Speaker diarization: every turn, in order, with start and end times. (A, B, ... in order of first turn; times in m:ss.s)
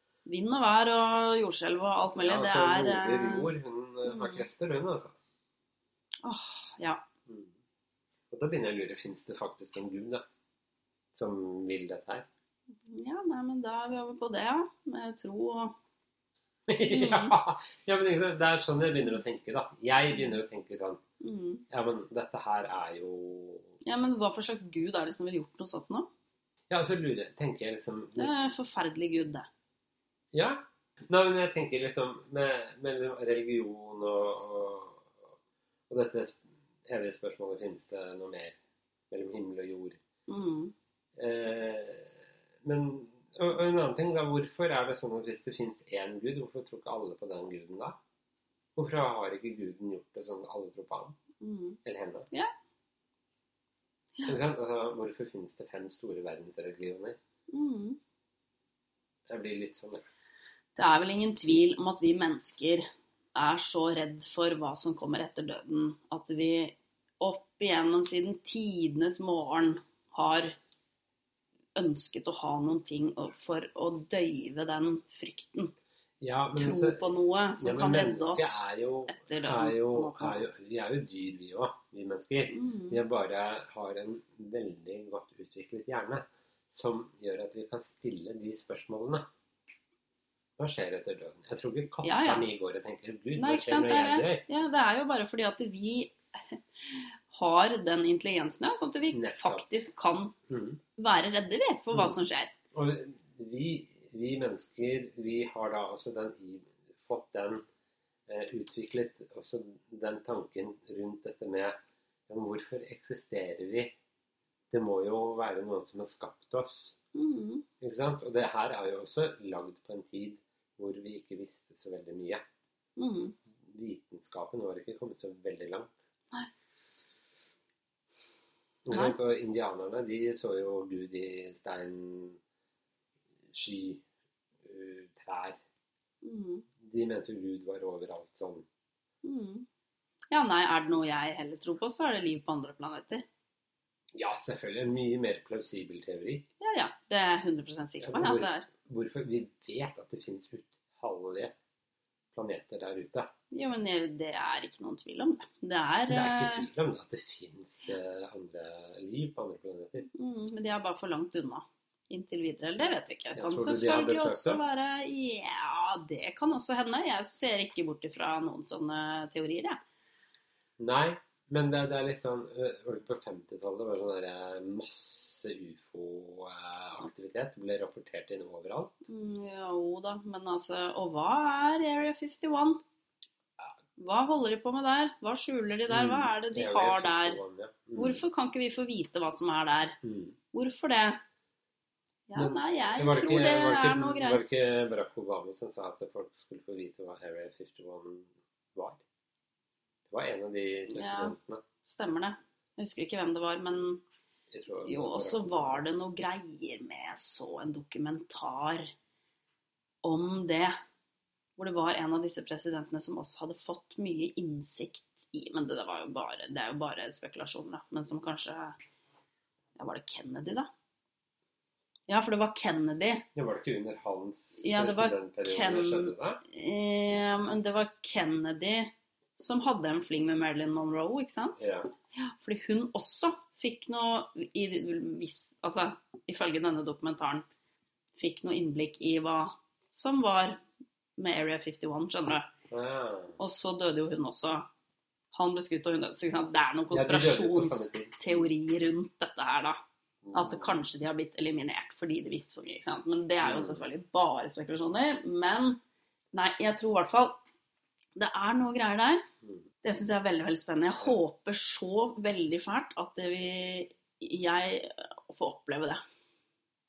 0:00.3-0:04.5 A
0:02.1-0:05.2 B
0:06.2-0:07.0 A
0:07.3-0:07.5 B
0:08.3-0:10.2 B
0:11.1-0:12.3 B
0:12.9-0:15.8 A
0:16.7-0:21.0 B
0:16.9-0:17.4 A
0:21.2-0:21.6 A
0:21.7-0:23.7 B
0:23.8-0:26.1 A
0:26.7-0:28.4 B
0:28.2-0:29.5 A
0:30.3-0:35.2 B
0:35.9-0:38.6 B
0:39.1-0:40.0 B
0:40.3-0:40.7 A
0:41.2-0:48.0 B
0:48.8-0:51.2 B
0:51.4-0:51.8 A
0:51.8-0:52.3 B
0:54.3-0:57.2 B
0:57.5-0:58.0 A
0:59.3-1:00.0 B
1:00.8-1:10.6 A
1:11.8-1:15.7 A
1:16.2-1:17.0 B
1:16.6-1:20.5 A
1:17.6-1:29.3 B
1:22.5-1:23.0 A
1:30.6-1:34.4 B
1:32.0-1:32.5 A
1:33.4-1:40.4 A
1:39.1-1:39.6 B
1:40.5-1:40.8 B
1:41.0-1:42.5 A
1:42.7-1:47.6 B
1:48.3-1:51.8 B
1:52.3-1:53.9 B
1:54.7-1:57.0 B
1:57.2-1:57.7 A
1:57.8-2:02.4 B
2:03.0-2:03.4 A
2:03.6-2:06.0 B
2:08.8-2:12.4 B
2:08.9-2:09.2 A
2:13.5-2:14.0 B
2:14.6-2:15.6 B
2:16.2-2:16.6 A
2:16.8-2:18.7 B
2:19.2-2:19.7 A
2:20.3-2:23.2 A
2:24.2-2:26.4 B
2:26.6-2:28.7 A
2:28.0-2:31.5 B
2:32.3-2:33.3 B
2:33.5-2:36.7 A
2:36.1-2:40.1 B
2:40.1-2:49.8 A
2:43.4-2:44.6 B
2:50.8-2:58.9 B
2:59.1-3:02.8 A
3:04.0-3:07.4 A
3:05.9-3:08.2 B
3:08.0-3:10.0 A
3:10.0-3:10.4 B
3:10.5-3:11.2 A
3:12.3-3:14.4 A
3:12.4-3:19.0 B
3:20.1-3:21.6 B
3:20.9-3:24.0 A
3:24.5-3:25.8 B
3:24.8-3:28.9 A
3:30.0-3:30.8 A
3:31.6-3:38.8 A
3:39.8-3:40.7 A
3:42.1-3:43.3 A
3:43.4-3:46.4 B
3:44.6-3:57.4 A
3:51.6-3:51.9 B
3:58.2-4:00.6 A
4:01.2-4:02.5 A
4:02.7-4:03.4 B
4:03.4-4:04.7 A
4:05.3-4:09.8 A
4:06.9-4:08.5 B
4:10.2-4:10.8 B
4:10.3-4:15.8 A
4:13.4-4:13.9 B
4:16.3-4:17.4 A
4:18.2-4:19.3 A
4:19.8-4:26.0 A